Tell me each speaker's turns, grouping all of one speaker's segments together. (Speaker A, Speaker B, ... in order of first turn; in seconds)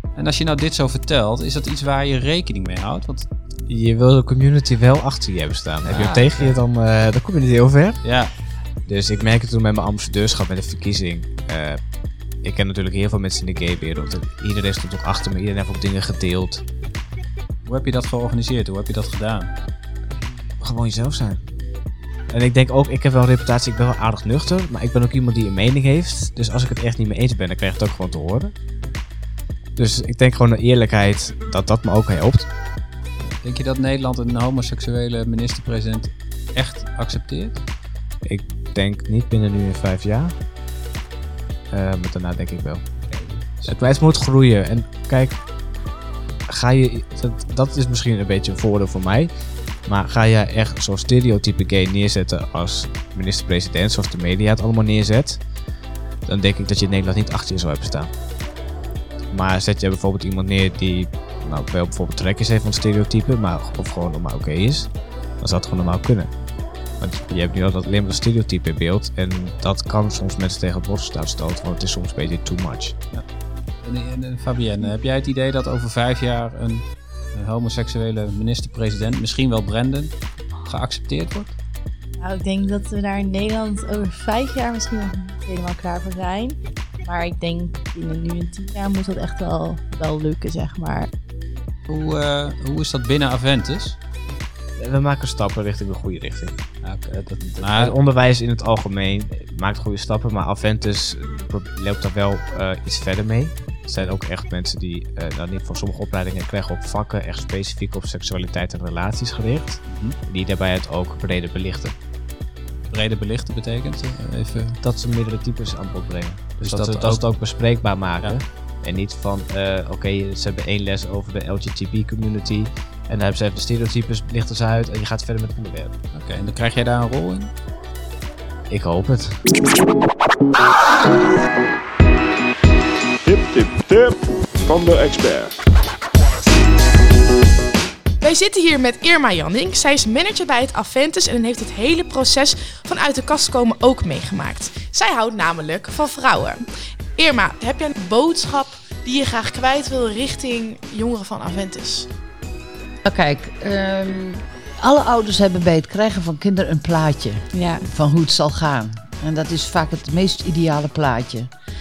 Speaker A: 0.1-3.3, 5.8-6.6, 8.0-8.3, 17.6-19.5, 33.2-37.6, 43.1-43.7, 73.8-81.5, 91.9-94.0, 96.8-98.0, 109.9-110.2, 112.9-114.8, 116.6-117.2, 126.1-127.5
Speaker B: 3.6-8.0, 8.8-11.8, 12.4-16.6, 20.6-21.4, 22.3-28.5, 29.8-32.5, 38.2-40.3, 41.7-42.9, 43.6-45.4, 46.5-49.3, 49.9-55.4, 56.2-58.1, 59.3-66.3, 67.0-73.0, 94.8-96.6, 97.5-111.9, 114.8-125.9, 128.7-129.4
Speaker C: 82.2-91.1, 157.5-157.8
Speaker D: 133.2-135.5
Speaker E: 138.2-152.1
Speaker F: 153.0-161.5